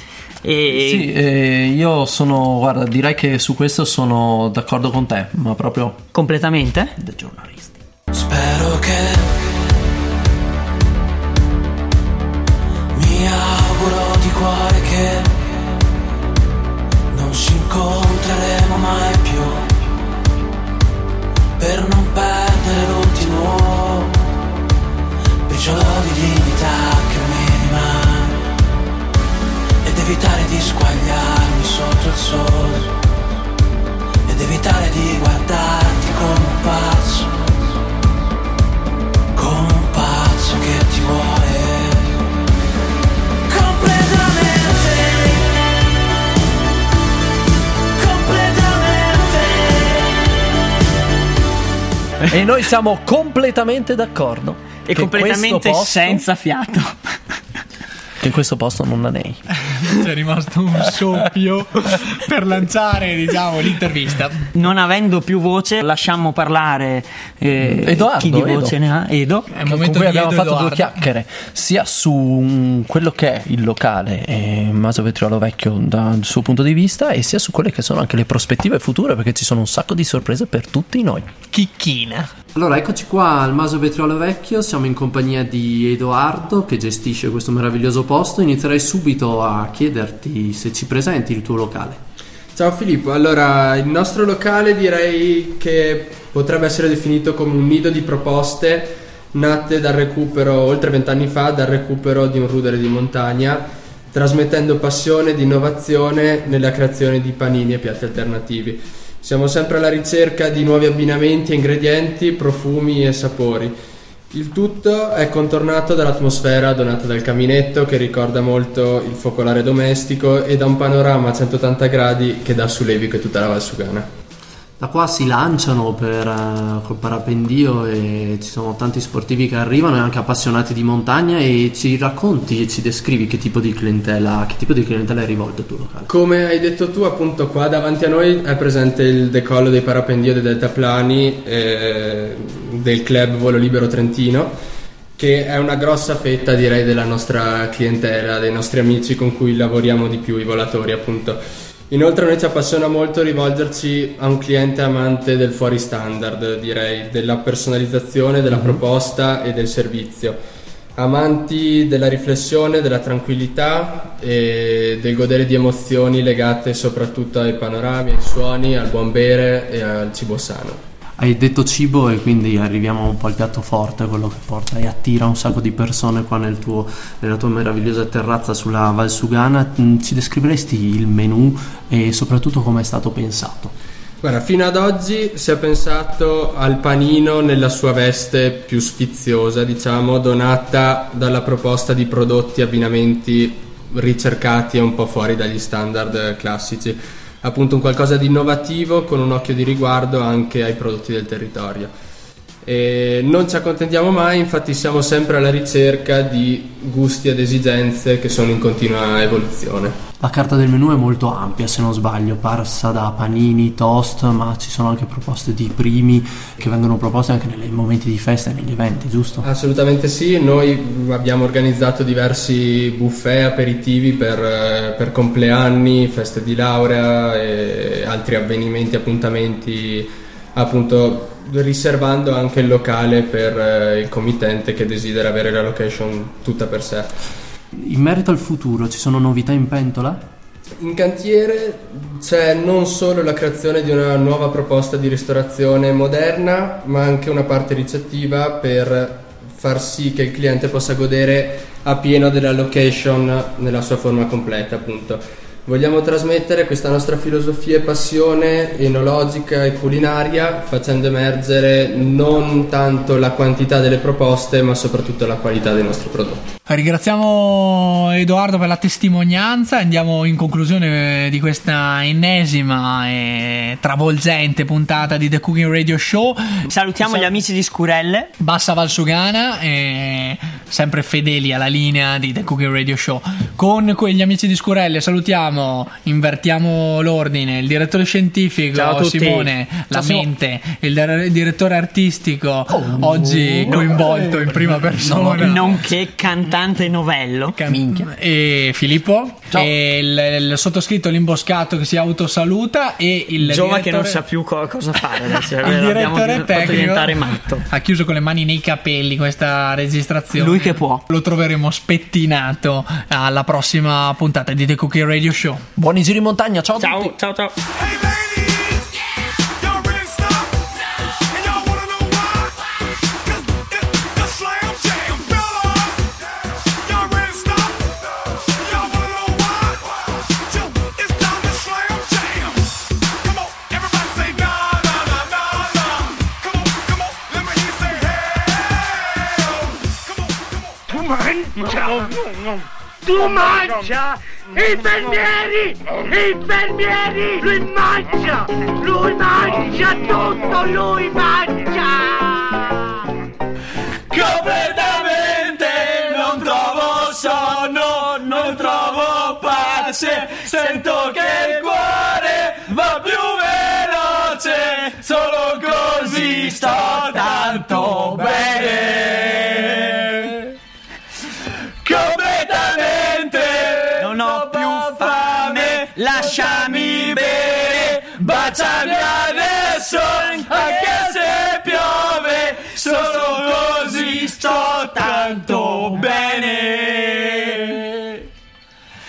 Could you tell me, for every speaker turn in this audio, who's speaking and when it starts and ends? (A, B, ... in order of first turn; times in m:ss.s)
0:00.4-0:01.1 A
0:00.7-0:06.0 B
0:06.1-0:07.0 A
0:07.0-0:07.8 B
0:08.1-0:09.5 C
0:13.0-0:15.5 C
0:17.1-0:19.7 C
0:21.6-0:24.2 C
0:25.5-0:28.4 C
0:29.8-0:32.9 C
0:34.3-0:37.5 C
0:39.4-0:42.2 C
0:43.5-0:45.5 C
0:48.0-0:50.2 C
0:52.3-0:56.2 B
0:54.9-0:57.0 A
0:58.2-0:59.4 B
0:59.7-1:04.4 D
1:04.5-1:09.5 A
1:07.8-1:08.8 B
1:09.5-1:11.0 D
1:09.7-1:21.3 B
1:21.5-1:22.3 D
1:22.6-1:32.0 B
1:32.6-1:43.6 E
1:44.1-1:53.7 E
1:54.3-2:04.0 E
2:04.8-2:16.1 B
2:16.1-2:24.5 E
2:25.2-2:31.4 E
2:31.9-2:40.4 E
2:41.0-2:50.8 E
2:51.2-3:03.7 B
3:04.2-3:21.9 E
3:22.6-3:30.0 E
3:30.2-3:39.4 B
3:39.4-3:57.1 E
3:57.7-4:00.2 B
4:00.8-4:26.4 E
4:26.7-4:37.3 D
4:36.7-4:38.3 A
4:38.4-4:55.8 D
4:48.7-4:49.5 A
4:49.9-4:50.3 B
4:52.7-4:55.8 B
4:55.4-4:57.6 A
4:57.6-5:04.2 D
4:57.7-4:58.1 B
5:03.4-5:07.7 A
5:05.6-5:15.6 D
5:10.4-5:11.0 A
5:15.8-5:17.2 B
5:16.8-5:17.6 A
5:41.2-5:42.1 F
5:43.1-5:44.0 F
5:44.6-5:52.8 F
5:54.1-6:09.9 A
6:11.9-6:13.2 C
6:14.0-6:27.9 A